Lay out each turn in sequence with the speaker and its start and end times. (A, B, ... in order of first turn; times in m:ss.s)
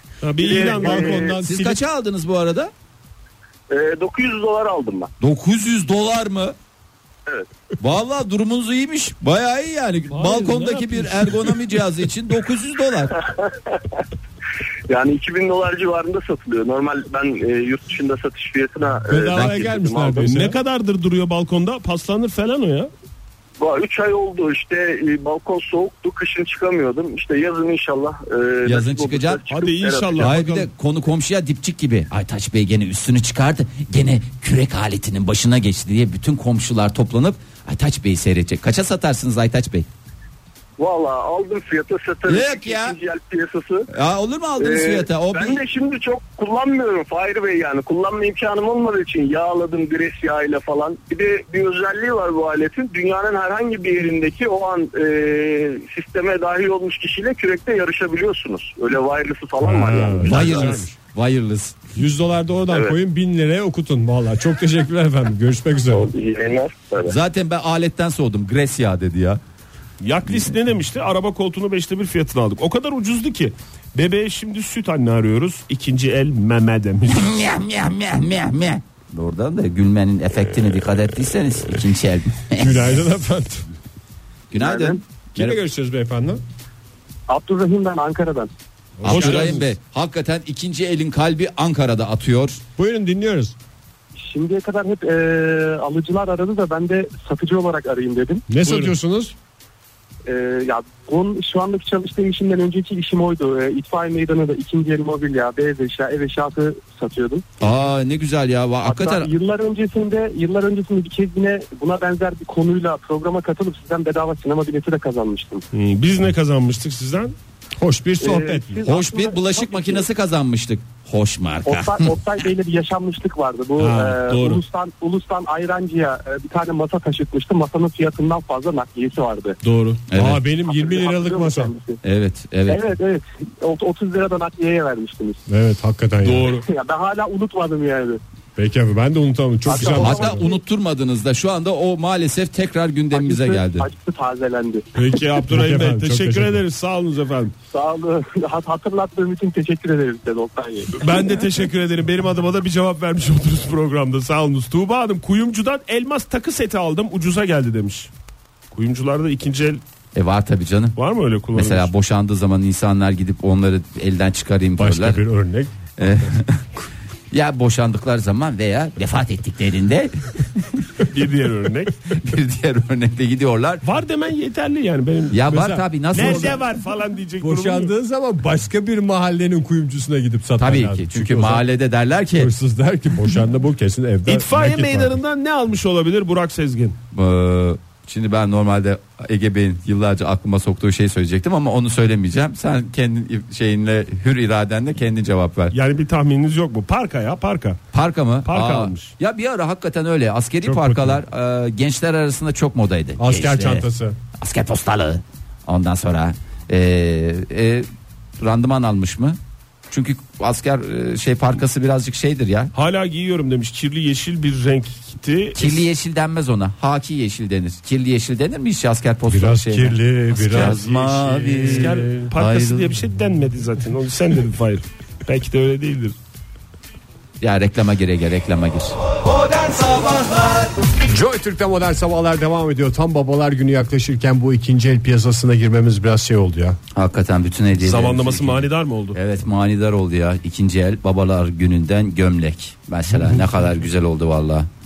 0:00.2-0:01.3 A
0:00.4-0:01.8 B
0:00.4-0:01.3 C
0:01.3-0:02.7 D
0:03.7-0:05.1 C
0:05.2-0:06.5 D
0:07.8-0:13.2 D
0:10.1-0:11.2 A
0:14.9-0:20.2 C
0:19.1-0:20.6 B
0:20.2-0:22.9 A
0:23.6-0:30.3 C
0:28.6-0:29.5 D
0:29.5-0:30.7 A
0:30.2-0:39.9 D
0:40.8-0:43.9 C
0:42.3-0:43.0 D
0:43.9-0:45.6 D
0:44.6-1:00.4 C
0:59.6-1:00.9 B
0:59.8-1:00.9 A
1:00.2-1:01.8 D
1:01.9-1:06.1 B
1:05.9-1:07.1 C
1:07.0-1:09.4 D
1:10.0-1:17.3 A
1:17.1-1:23.0 D
1:22.6-1:23.7 B
1:24.5-1:25.6 D
1:24.5-1:25.0 E
1:25.3-1:26.4 B
1:27.3-1:28.5 E
1:29.0-1:29.7 B
1:29.0-1:32.6 D
1:29.1-1:29.6 A
1:32.8-1:33.5 B
1:34.2-1:38.4 E
1:38.5-1:39.3 B
1:38.6-1:38.9 A
1:40.2-1:47.4 E
1:47.6-1:49.3 D
1:48.8-1:55.6 E
1:55.7-1:57.3 A
1:57.8-1:58.8 B
1:58.2-2:00.0 E
1:58.9-2:02.2 D
2:01.6-2:09.6 E
2:03.8-2:04.6 A
2:09.6-2:10.0 A
2:10.1-2:10.4 D
2:10.1-2:11.7 B
2:10.6-2:12.0 E
2:12.0-2:12.8 D
2:12.7-2:15.4 E
2:15.5-2:16.6 B
2:16.2-2:16.6 A
2:16.5-2:18.2 E
2:18.6-2:20.5 B
2:19.6-2:20.6 E
2:19.8-2:23.9 D
2:23.1-2:24.9 E
2:25.0-2:27.5 A
2:25.5-2:26.6 B
2:27.7-2:31.2 E
2:31.0-2:38.1 A
2:38.7-2:39.8 A
2:40.1-2:41.0 D
2:41.0-2:41.9 A
2:41.5-2:45.2 D
2:44.8-2:45.7 B
2:46.0-2:46.6 D
2:47.3-2:50.6 D
2:51.1-2:51.9 A
2:52.1-2:53.8 D
2:53.8-2:55.4 A
2:55.3-2:56.6 D
2:55.5-2:56.6 B
2:56.1-2:57.9 A
2:57.4-3:01.6 B
3:00.6-3:02.5 D
3:02.4-3:05.2 B
3:04.3-3:07.0 A
3:07.1-3:15.8 D
3:15.7-3:17.8 A
3:17.9-3:27.9 D
3:18.4-3:19.1 A
3:20.6-3:21.2 B
3:23.2-3:24.2 B
3:28.4-3:29.4 D
3:29.9-3:32.7 D
3:32.8-3:35.8 A
3:35.5-3:43.0 D
3:39.3-3:42.2 B
3:41.6-3:46.2 A
3:47.4-3:50.7 D
3:51.0-3:56.8 B
3:57.0-4:04.7 D
3:57.8-3:59.2 A